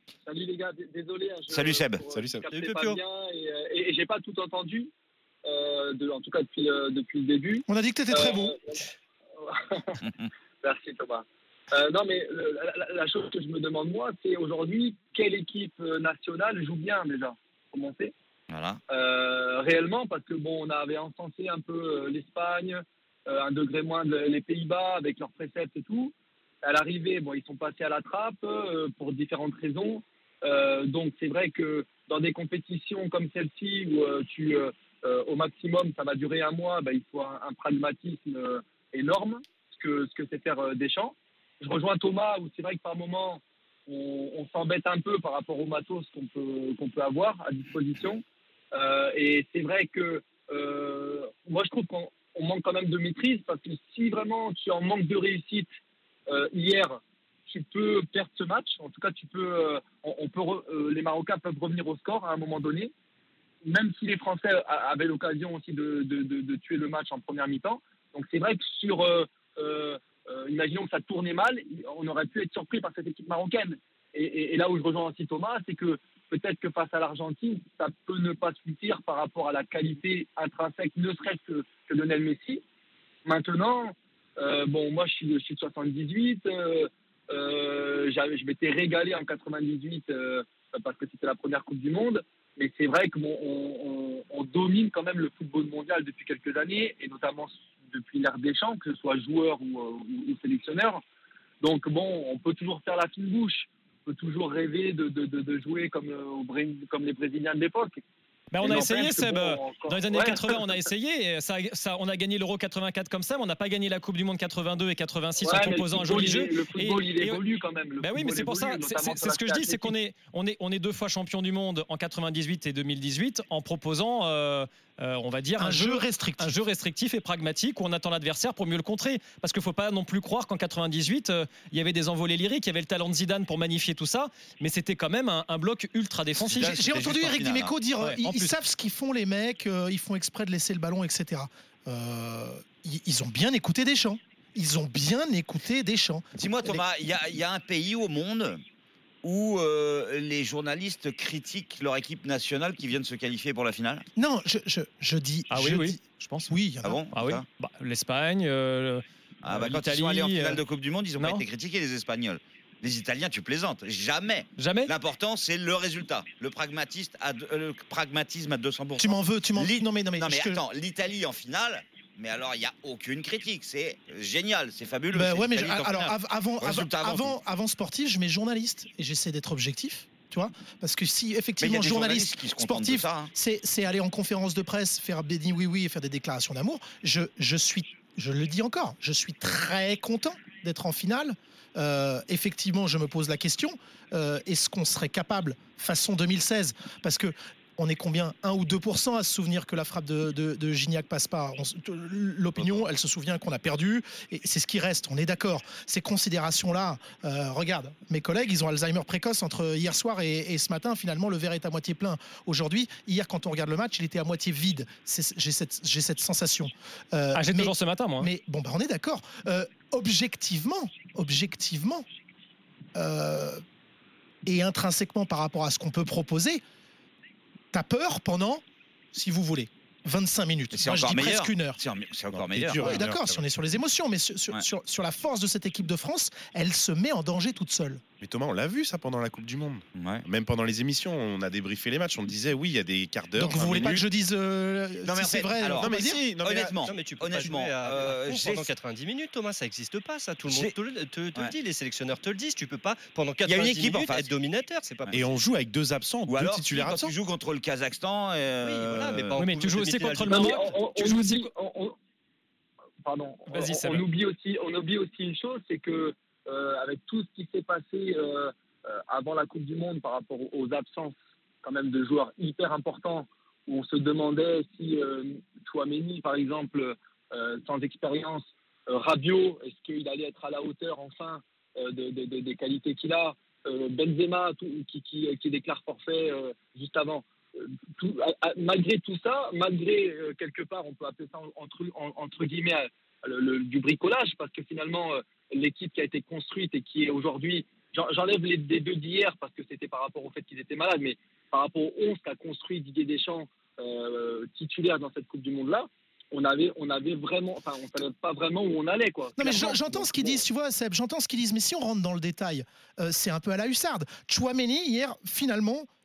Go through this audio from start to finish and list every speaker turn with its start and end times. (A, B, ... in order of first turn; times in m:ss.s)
0:00.2-0:04.9 A
0:01.5-0:02.0 B
0:02.1-0:02.4 C
0:02.5-0:03.0 D
0:05.4-0:08.8 A
0:07.7-0:08.6 E
0:09.4-0:10.0 A
0:10.6-0:18.1 A
0:18.5-0:18.8 B
0:18.9-0:55.7 A
0:56.3-1:02.9 A
1:03.6-1:22.6 A
1:23.3-1:41.0 A
1:41.6-1:48.0 A
1:48.5-1:57.4 F
1:48.6-1:50.8 A
1:55.4-1:59.9 A
1:58.0-2:16.8 F
2:05.6-2:06.6 E
2:16.5-2:17.8 B
2:16.6-2:26.8 E
2:18.0-2:18.6 F
2:26.4-2:28.6 B
2:29.2-2:34.0 B
2:34.2-2:37.0 E
2:35.5-2:36.5 F
2:36.8-2:37.4 B
2:37.1-2:40.6 F
2:39.4-2:57.4 B
2:41.2-2:41.4 F
2:44.6-2:44.9 F
2:49.0-2:50.6 E
2:55.1-3:42.0 E
3:01.6-3:03.3 B
3:22.6-3:22.9 B
3:37.3-3:38.3 F
3:43.0-3:43.6 E
3:44.5-3:46.6 E
3:47.7-3:51.8 E
3:50.7-3:53.0 B
3:52.3-3:53.5 C
3:52.7-3:58.0 E
3:58.2-4:04.1 C
3:59.9-4:00.2 B
4:03.4-4:06.2 E
4:05.1-4:08.7 B
4:05.7-4:06.8 C
4:06.9-4:15.4 D
4:10.5-4:10.7 B
4:13.4-4:14.4 B
4:15.1-4:17.1 C
4:16.3-4:19.4 B
4:18.6-4:20.7 D
4:19.4-4:21.5 F
4:20.3-4:22.0 A
4:23.0-5:10.4 A
4:23.5-4:24.0 F
5:09.4-5:15.9 E